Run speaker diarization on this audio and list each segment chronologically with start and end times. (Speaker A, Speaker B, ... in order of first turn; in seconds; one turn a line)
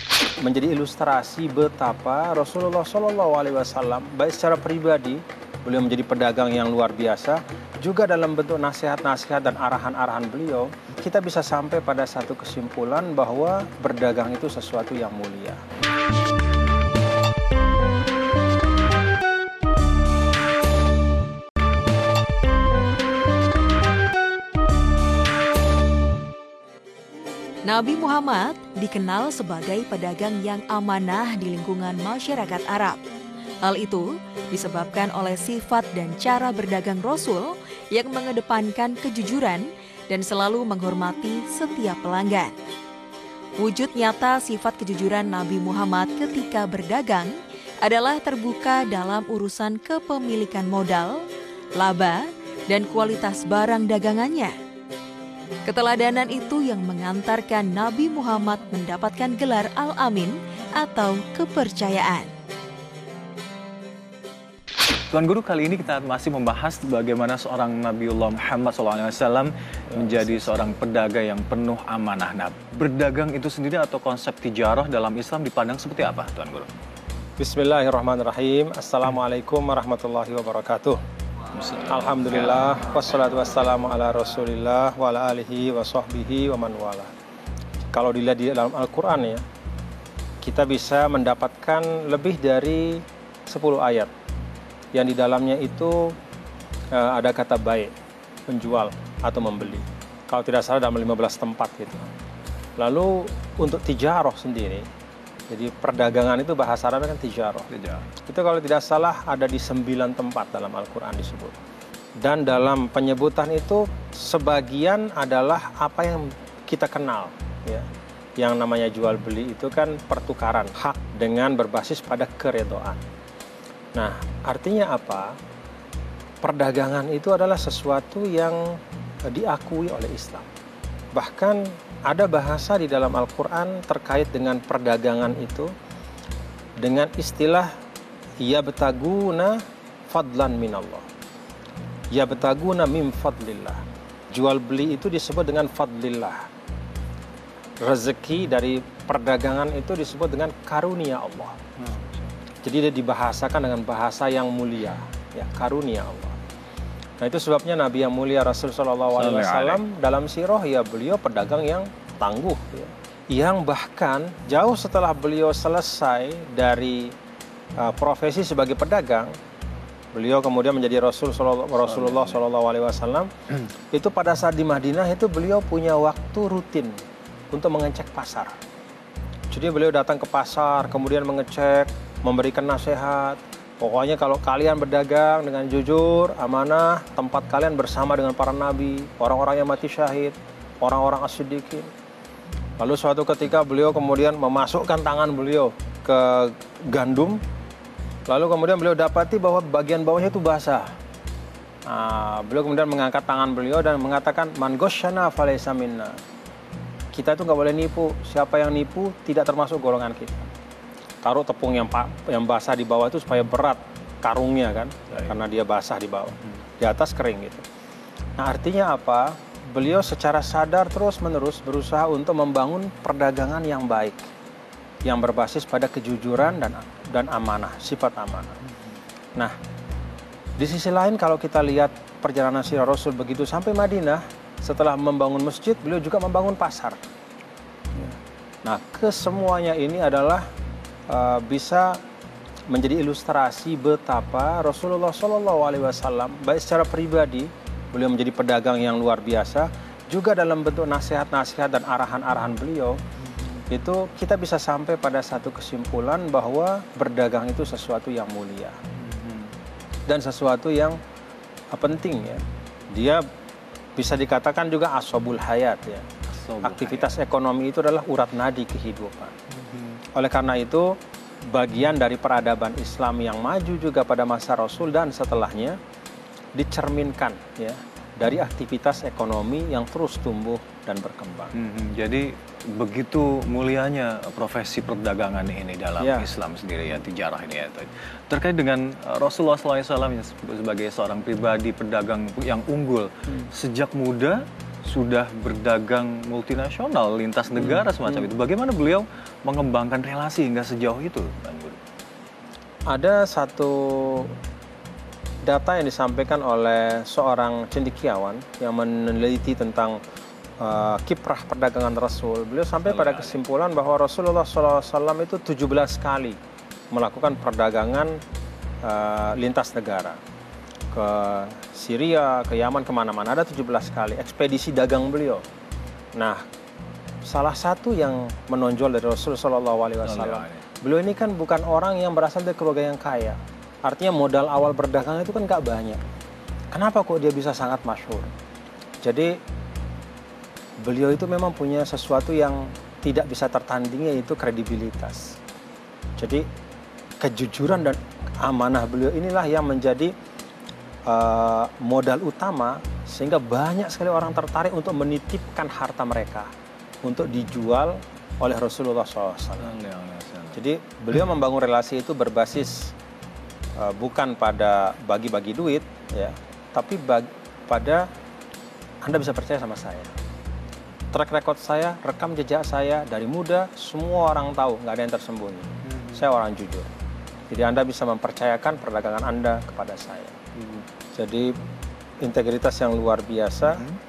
Speaker A: 0.4-15.6
Speaker B: 27.7-33.0
Speaker B: 33.6-42.5
Speaker B: 43.6-51.2
Speaker B: 51.8-54.5
Speaker B: 55.6-62.3
Speaker C: 65.1-76.7
Speaker A: 69.9-70.8
Speaker A: 77.4-81.0
Speaker C: 81.6-82.5
Speaker A: 81.9-87.1
Speaker A: 87.9-89.4
Speaker A: 90.4-94.1
Speaker A: 94.9-96.2
Speaker A: 96.9-97.9
Speaker A: 98.5-102.1
Speaker A: 102.8-104.9
Speaker A: 105.5-107.7
Speaker C: 107.7-108.1
Speaker A: 108.2-111.5
Speaker A: 112.2-117.8
Speaker A: 118.4-123.0
Speaker A: 123.9-125.3
Speaker A: 126.4-128.6
Speaker A: 129.3-130.5
Speaker A: 131.1-135.7
Speaker A: 136.8-137.7
Speaker A: 138.4-139.6
Speaker A: 140.1-141.1
Speaker A: 142.1-146.4
Speaker A: 147.8-151.6
Speaker A: 152.6-156.4
Speaker A: 157.2-167.1
Speaker C: 159.1-159.8
Speaker A: 167.8-169.3
Speaker A: 170.1-173.3
Speaker C: 171.8-172.4
Speaker A: 173.9-177.0
Speaker A: 177.5-178.5
Speaker A: 179.5-191.9
Speaker A: 192.8-197.4
Speaker A: 198.3-200.9
Speaker A: 201.9-206.2
Speaker A: 207.1-210.5
Speaker A: 211.2-217.6
Speaker A: 218.4-224.3
Speaker A: 225.0-228.6
Speaker A: 230.6-237.0
Speaker A: 237.9-240.4
Speaker A: 241.1-242.0
Speaker A: 242.7-253.0
Speaker A: 253.7-258.8
Speaker C: 259.0-259.5
Speaker A: 260.1-261.0
Speaker A: 261.7-263.2
Speaker A: 263.9-266.0
Speaker C: 266.3-267.2
Speaker A: 266.6-269.4
Speaker A: 270.1-270.9
Speaker A: 271.5-275.8
Speaker A: 276.6-281.5
Speaker C: 281.5-301.8
Speaker A: 286.0-286.3
Speaker A: 302.9-304.3
Speaker A: 305.4-310.0
Speaker A: 310.6-316.4
Speaker C: 312.8-313.4
Speaker A: 316.9-318.2
Speaker A: 318.8-320.2
Speaker A: 320.9-325.4
Speaker A: 326.1-326.4
Speaker A: 327.2-336.0
Speaker C: 330.0-330.6
Speaker A: 336.7-338.3
Speaker A: 339.0-339.4
Speaker A: 340.8-345.4
Speaker A: 346.2-346.4
Speaker A: 347.2-350.1
Speaker A: 351.1-356.5
Speaker A: 357.0-359.7
Speaker C: 359.6-360.6
Speaker A: 360.5-362.9
Speaker A: 363.8-368.0
Speaker A: 369.0-370.1
Speaker A: 371.1-376.9
Speaker A: 377.5-380.4
Speaker A: 381.1-381.5
Speaker A: 382.2-383.8
Speaker C: 383.6-384.0